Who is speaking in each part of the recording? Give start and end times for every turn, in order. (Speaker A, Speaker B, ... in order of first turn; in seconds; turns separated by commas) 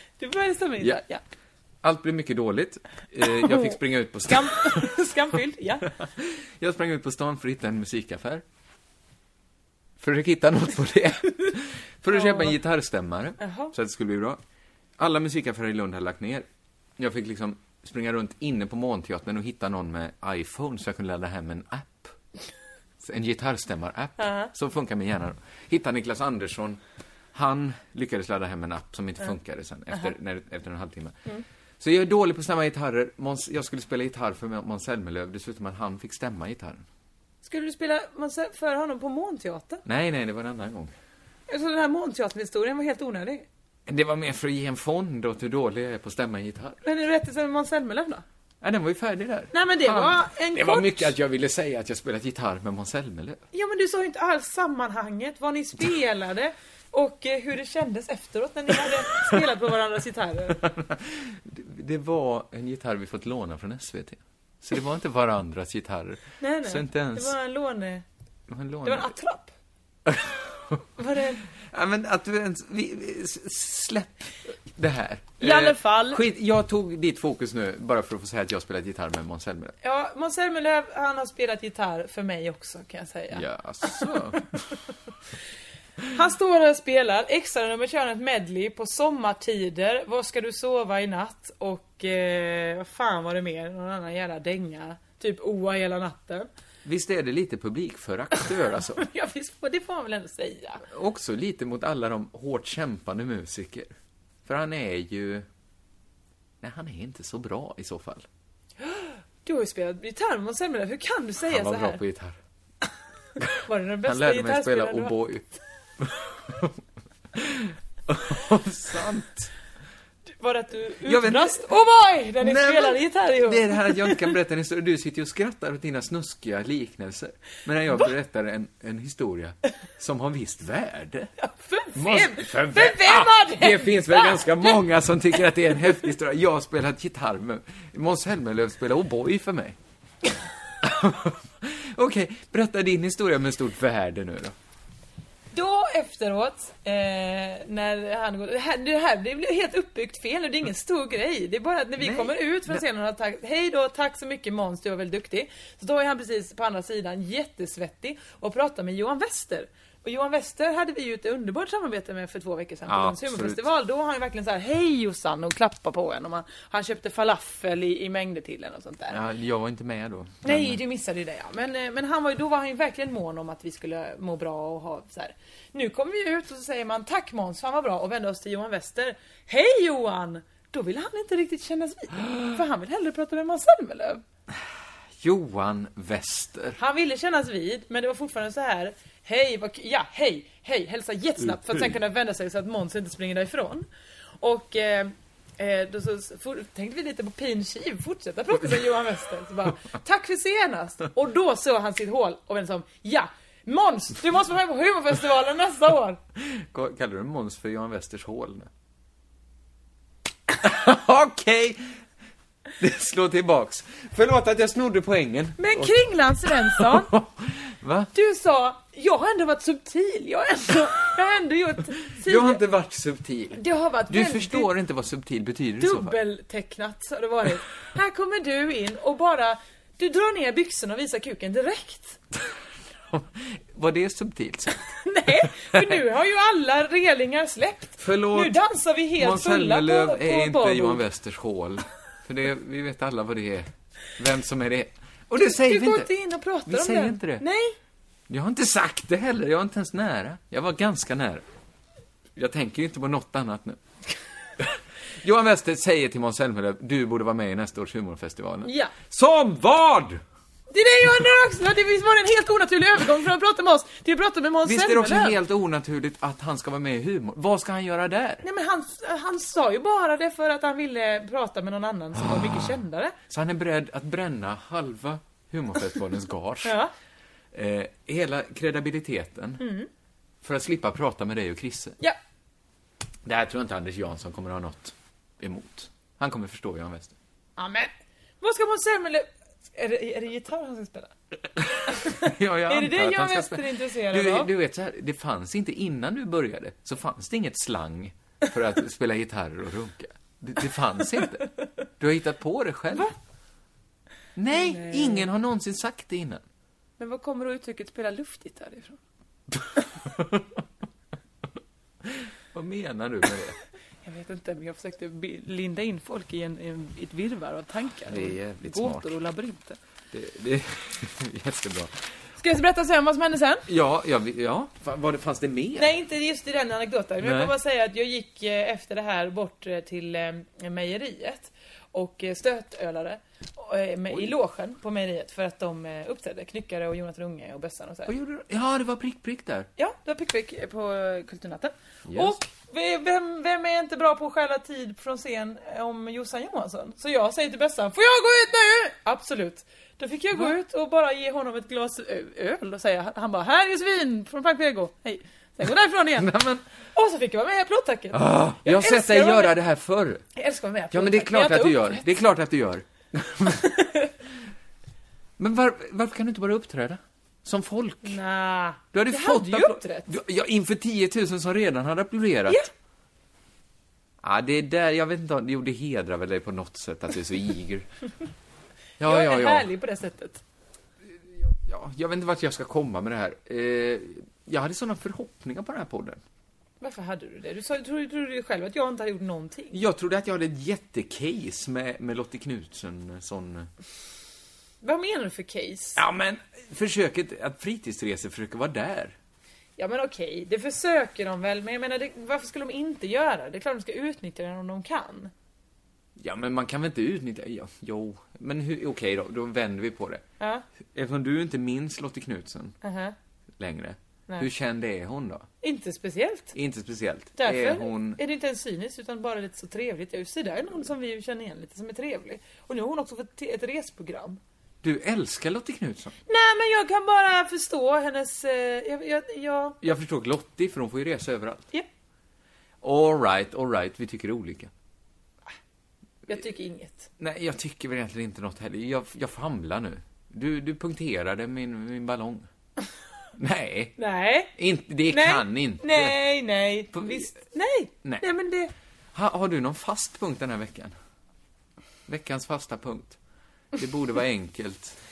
Speaker A: 0.2-1.2, Speaker B: 1.8-5.1, Speaker A: 3.4-5.9, Speaker B: 6.0-8.4, Speaker B: 10.0-14.4, Speaker A: 12.1-12.6, Speaker A: 13.4-13.7, Speaker B: 15.0-16.5, Speaker B: 17.0-22.2, Speaker B: 23.0-26.8, Speaker A: 24.2-24.5, Speaker B: 27.3-31.2, Speaker B: 31.8-36.9, Speaker A: 37.4-39.8, Speaker B: 39.9-40.9, Speaker A: 41.5-43.5, Speaker B: 43.9-46.8, Speaker A: 46.8-48.2, Speaker B: 48.6-53.4, Speaker A: 49.5-51.1, Speaker A: 53.5-60.6, Speaker B: 60.6-67.3, Speaker A: 66.4-68.0, Speaker B: 68.5-69.1, Speaker A: 68.8-69.5, Speaker B: 70.1-70.8, Speaker A: 71.0-71.4, Speaker B: 71.6-79.8, Speaker A: 75.4-76.2, Speaker A: 79.8-84.3, Speaker B: 83.3-84.7, Speaker A: 86.1-96.5, Speaker B: 96.8-99.0, Speaker A: 98.9-100.8, Speaker B: 100.8-103.9, Speaker B: 104.5-105.5, Speaker B: 106.6-108.3, Speaker A: 108.8-112.0, Speaker B: 111.5-112.4, Speaker A: 113.6-115.2, Speaker B: 114.0-116.8, Speaker B: 117.3-119.5, Speaker A: 120.4-124.3, Speaker B: 121.0-121.7, Speaker B: 122.4-131.3, Speaker A: 131.4-134.8, Speaker B: 131.9-139.8, Speaker B: 140.8-144.6, Speaker A: 145.5-169.2, Speaker B: 152.0-152.8, Speaker B: 162.9-163.6, Speaker B: 169.1-170.8, Speaker A: 170.4-184.2, Speaker B: 185.2-186.8, Speaker A: 186.8-193.9, Speaker B: 191.7-191.9, Speaker A: 194.4-206.2, Speaker B: 206.4-208.7, Speaker B: 210.6-211.9, Speaker B: 212.8-215.9, Speaker A: 215.6-217.1, Speaker B: 216.5-218.1, Speaker A: 218.1-222.6, Speaker B: 222.1-226.2, Speaker A: 223.6-224.7, Speaker A: 225.8-232.2, Speaker B: 233.1-234.8, Speaker A: 235.0-241.0, Speaker B: 235.7-236.0, Speaker B: 238.0-238.6, Speaker B: 239.2-246.1, Speaker A: 245.4-247.8, Speaker B: 246.7-247.4, Speaker B: 248.3-251.4, Speaker B: 252.4-253.8, Speaker B: 254.6-260.2, Speaker A: 258.6-258.9, Speaker A: 260.7-265.4, Speaker B: 264.6-268.4, Speaker A: 268.4-273.1, Speaker B: 272.2-272.7, Speaker B: 273.3-276.8, Speaker A: 276.6-276.9, Speaker B: 277.5-279.6, Speaker A: 279.6-279.9, Speaker B: 280.4-282.0, Speaker B: 283.2-287.2, Speaker A: 287.6-291.1, Speaker B: 291.6-301.5, Speaker A: 291.9-294.5, Speaker B: 302.0-303.1, Speaker B: 304.4-306.4, Speaker A: 304.5-305.3, Speaker A: 307.0-309.0, Speaker B: 309.5-310.5, Speaker B: 312.0-313.6, Speaker A: 314.1-319.8, Speaker B: 318.1-319.1, Speaker B: 320.1-322.0, Speaker A: 322.4-323.7, Speaker B: 323.7-325.9, Speaker A: 325.8-338.1, Speaker B: 327.2-327.5, Speaker B: 338.1-339.7, Speaker A: 339.8-356.4, Speaker B: 342.1-342.4, Speaker B: 356.2-356.6, Speaker A: 356.9-359.6, Speaker B: 358.1-360.2, Speaker A: 360.4-362.1, Speaker B: 360.9-363.7, Speaker A: 363.6-364.1, Speaker B: 365.4-368.2, Speaker A: 368.1-370.1, Speaker B: 368.9-372.6, Speaker B: 374.2-377.9, Speaker B: 379.0-379.7, Speaker A: 379.0-380.4, Speaker B: 381.3-386.2, Speaker A: 386.8-389.8, Speaker B: 389.7-393.7, Speaker A: 394.8-396.0, Speaker B: 396.0-399.2, Speaker A: 399.8-405.3, Speaker B: 406.2-410.2, Speaker B: 410.9-412.8, Speaker A: 412.8-413.1, Speaker B: 413.6-415.5, Speaker A: 415.6-416.6, Speaker B: 416.6-418.2, Speaker A: 417.4-424.4, Speaker B: 424.8-426.2, Speaker A: 426.3-429.8, Speaker B: 429.8-431.7, Speaker B: 432.8-434.7, Speaker A: 436.3-437.1, Speaker B: 437.2-442.5, Speaker B: 443.4-444.0, Speaker A: 444.0-444.5, Speaker B: 444.6-446.2, Speaker A: 445.1-448.7, Speaker B: 446.9-447.3, Speaker B: 449.1-450.9, Speaker B: 452.1-453.2, Speaker B: 453.8-455.0